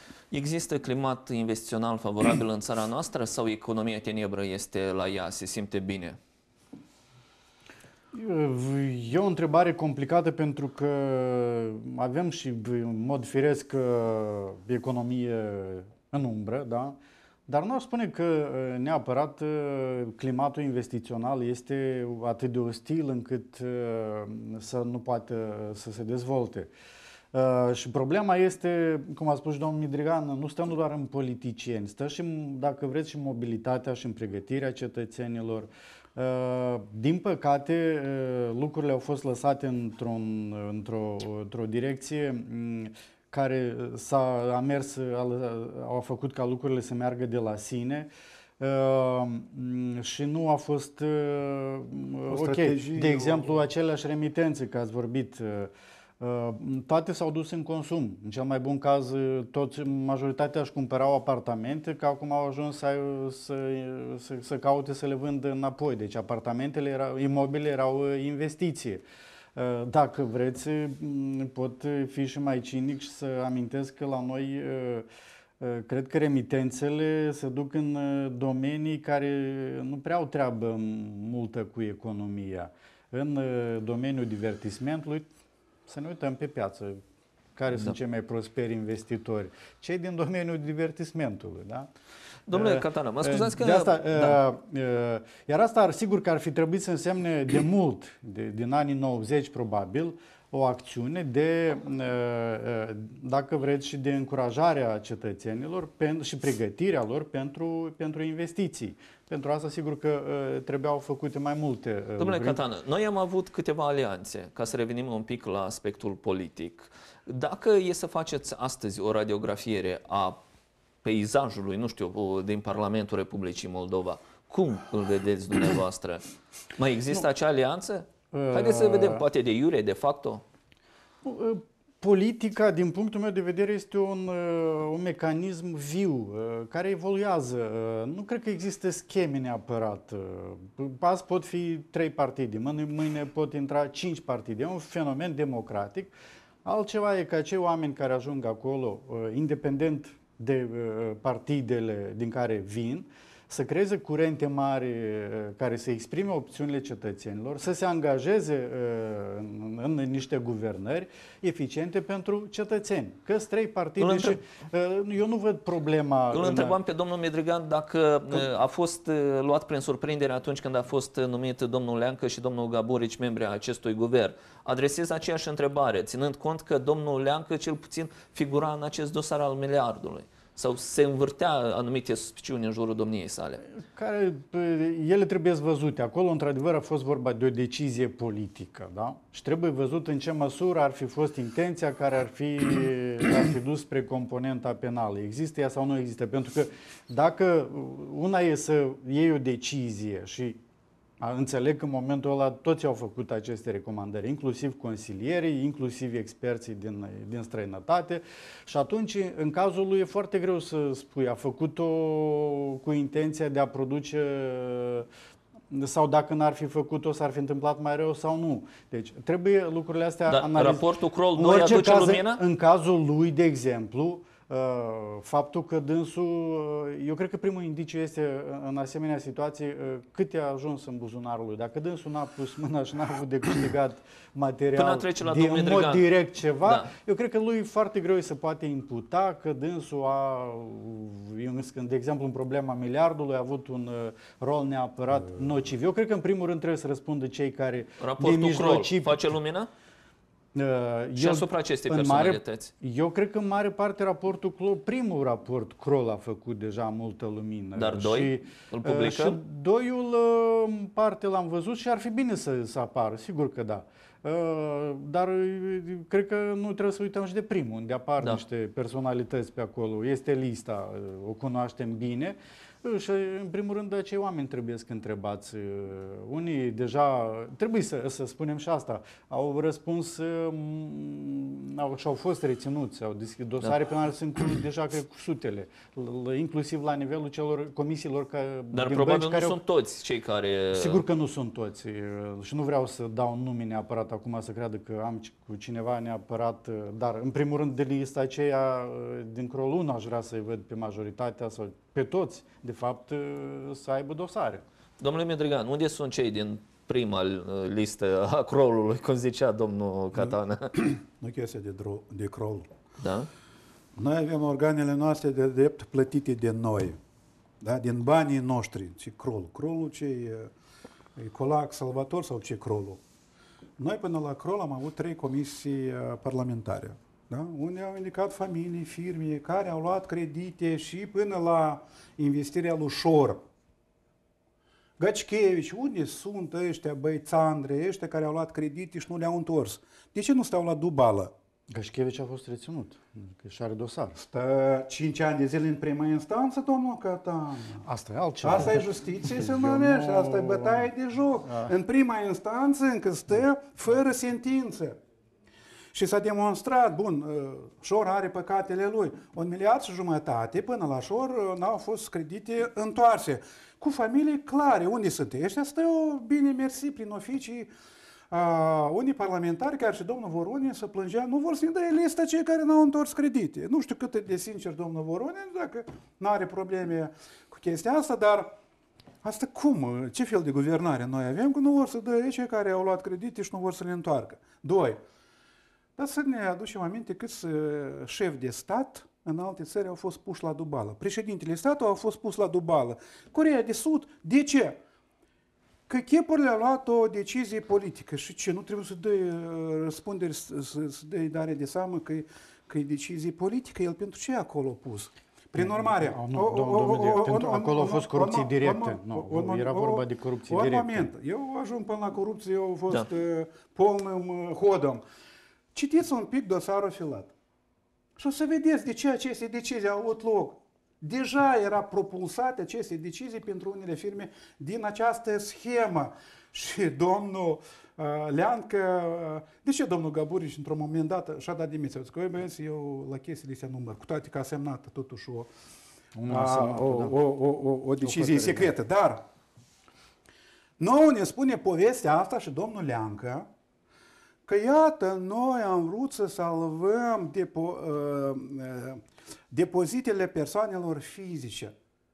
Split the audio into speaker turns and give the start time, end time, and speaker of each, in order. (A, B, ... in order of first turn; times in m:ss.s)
0:00.3-0:06.2 A
0:08.1-0:17.0 B
0:17.5-0:26.7 B
0:27.3-0:48.1 B
0:48.6-1:09.0 B
0:52.3-0:53.5 C
1:09.6-1:15.0 B
1:15.6-1:25.3 B
1:25.9-1:27.0 B
1:27.6-1:31.9 B
1:32.5-1:34.4 A
1:32.5-1:52.6 B
1:52.2-2:00.4 A
2:01.0-2:06.2 A
2:06.8-2:10.4 A
2:08.3-2:09.2 B
2:11.2-2:26.1 B
2:26.6-2:46.8 B
2:44.0-2:44.3 A
2:46.3-3:03.6 A
3:03.7-3:20.6 B
3:21.2-3:35.1 B
3:35.7-4:09.2 B
3:40.3-3:42.4 A
3:54.7-3:56.1 A
3:56.6-3:56.9 A
4:08.0-4:09.7 A
4:10.5-4:49.6 B
4:11.2-4:12.7 A
4:17.8-4:19.4 A
4:48.7-4:51.0 A
4:50.7-5:04.6 B
5:05.0-5:10.8 A
5:10.7-5:12.7 C
5:13.0-5:13.3 A
5:14.0-5:17.0 C
5:17.6-5:20.5 C
5:21.2-5:23.0 C
5:23.8-5:33.4 C
5:35.0-5:41.3 C
5:41.7-5:44.2 B
5:44.2-5:47.8 C
5:47.8-5:50.9 B
5:48.4-5:55.0 C
5:51.4-5:51.7 B
5:55.9-6:07.7 C
6:08.3-6:18.5 C
6:19.2-6:25.0 C
6:26.0-6:34.8 C
6:35.9-6:55.0 C
6:45.6-6:51.1 B
6:55.7-6:57.3 C
6:58.2-7:15.5 C
7:16.2-7:17.2 B
7:16.3-7:19.2 C
7:18.0-7:18.7 B
7:20.8-7:23.4 C
7:24.4-7:31.7 C